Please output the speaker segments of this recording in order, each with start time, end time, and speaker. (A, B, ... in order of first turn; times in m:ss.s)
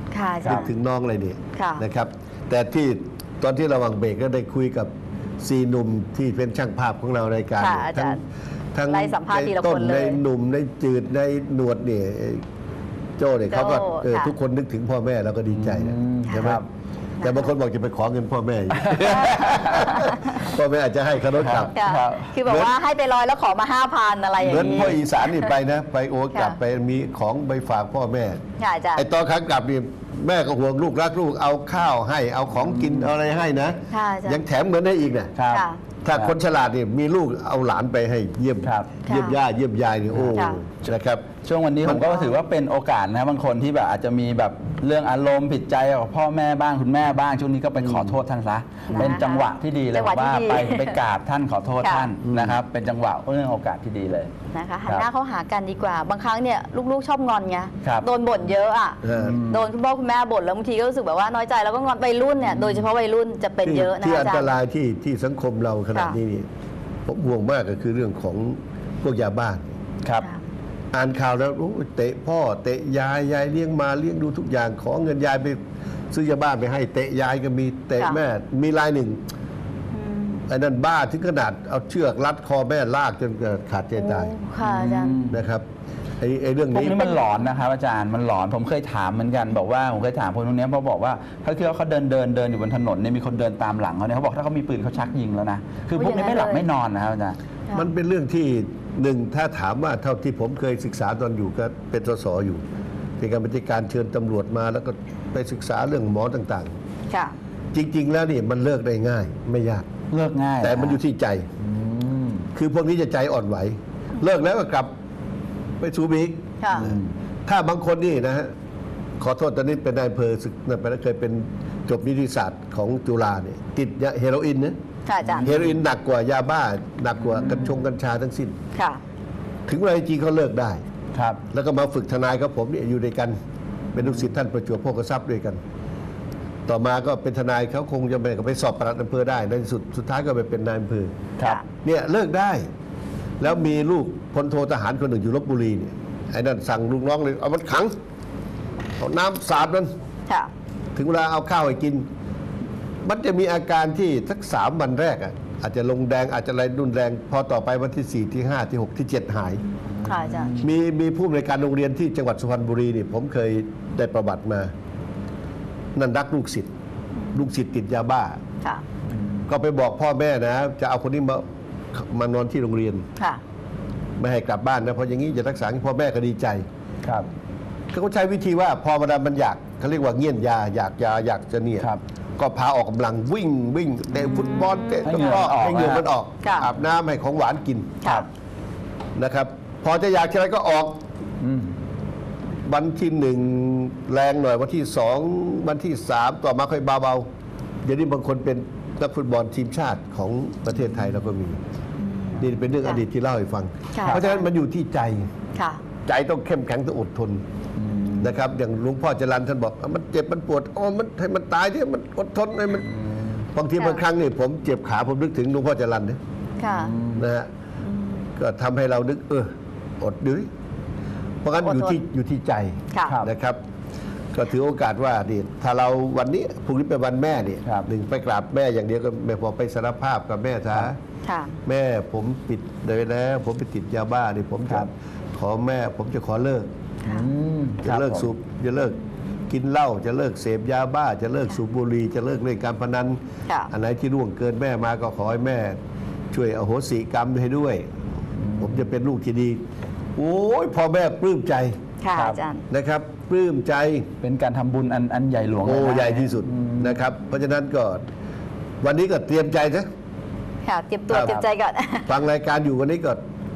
0:00.1-0:00.7 A
0:00.4-0:04.9 B
0:01.6-0:01.8 A
0:05.4-0:08.2 B
0:07.6-0:08.2 A
0:08.7-0:12.4 B
0:08.9-0:10.2 A
0:13.2-0:16.6 B
0:13.5-0:14.3 A
0:15.5-0:16.6 C
0:17.2-0:17.5 A
0:17.2-0:21.7 B
0:18.8-0:20.0 C
0:19.1-0:20.2 A
0:21.3-0:22.3 C
0:21.7-0:25.5 A
0:22.4-0:22.7 B
0:24.4-0:28.4 B
0:24.4-0:24.9 C
0:28.6-0:29.1 A
0:29.0-0:35.3 B
0:32.6-0:33.1 C
0:33.9-0:34.4 A
0:35.4-0:36.3 C
0:35.5-0:35.8 A
0:36.0-0:41.3 B
0:38.6-0:38.9 C
0:39.1-0:39.4 A
0:40.1-0:40.9 C
0:40.4-0:40.6 A
0:41.4-0:54.3 C
0:41.8-0:42.2 B
0:48.9-0:51.0 A
0:51.8-0:52.1 A
0:52.3-0:52.6 B
0:54.5-1:04.5 A
0:59.0-0:59.4 B
0:59.1-0:59.7 C
1:03.6-1:06.5 B
1:07.1-1:09.7 B
1:10.9-1:15.6 B
1:16.1-1:19.2 B
1:19.9-1:20.4 A
1:20.5-1:24.3 B
1:24.0-1:25.2 A
1:24.6-1:25.4 C
1:25.3-1:25.6 B
1:26.2-1:27.1 B
1:26.7-1:37.4 C
1:27.0-1:27.4 A
1:36.0-1:36.7 A
1:37.7-1:42.6 B
1:43.2-1:46.7 B
1:47.1-1:47.4 A
1:47.7-1:49.9 B
1:50.1-1:51.0 C
1:50.6-1:51.5 B
1:51.6-1:52.5 C
1:52.6-1:54.9 B
1:55.8-1:58.5 B
1:56.6-1:56.9 A
1:56.8-1:57.0 C
1:59.2-2:04.8 B
2:05.1-2:05.5 A
2:05.2-2:05.8 C
2:05.4-2:08.6 B
2:07.3-2:07.7 C
2:08.8-2:09.0 A
2:09.7-2:10.8 B
2:11.1-2:11.4 C
2:11.5-2:13.4 B
2:13.9-2:15.6 B
2:16.7-2:21.1 B
2:21.8-2:22.7 B
2:23.4-2:27.9 B
2:29.0-2:29.9 B
2:31.0-2:32.1 B
2:33.0-2:39.6 B
2:40.0-2:40.7 C
2:40.0-2:40.6 A
2:40.6-2:44.7 B
2:46.0-2:46.7 B
2:47.3-2:48.4 B
2:49.5-2:53.0 B
2:54.2-2:56.6 B
2:57.9-3:08.0 B
3:04.6-3:05.4 A
3:05.0-3:06.1 C
3:06.4-3:06.7 A
3:08.0-3:08.3 A
3:09.2-3:11.0 B
3:11.4-3:11.7 C
3:12.7-3:17.3 B
3:17.8-3:21.6 B
3:22.0-3:23.0 A
3:22.4-3:25.3 B
3:23.9-3:24.4 A
3:25.6-3:25.8 A
3:26.1-3:27.4 B
3:27.8-3:28.3 C
3:28.2-3:32.9 B
3:33.5-3:36.2 B
3:36.6-3:37.0 A
3:36.7-3:37.3 C
3:37.1-3:37.5 B
3:38.4-3:40.5 B
3:41.4-3:43.6 B
3:41.6-3:42.0 A
3:44.3-3:51.0 B
3:51.2-3:51.6 A
3:51.7-3:56.7 B
3:57.1-3:58.3 C
3:57.8-3:59.0 B
3:59.5-4:03.2 B
4:03.7-4:05.8 B
4:06.3-4:07.9 B
4:08.4-4:08.8 C
4:08.6-4:09.6 B
4:10.2-4:11.8 B
4:12.0-4:12.6 A
4:12.7-4:14.1 B
4:14.2-4:17.0 C
4:15.6-4:18.0 B
4:18.8-4:19.9 B
4:20.6-4:22.1 A
4:21.1-4:21.5 B
4:22.1-4:23.2 B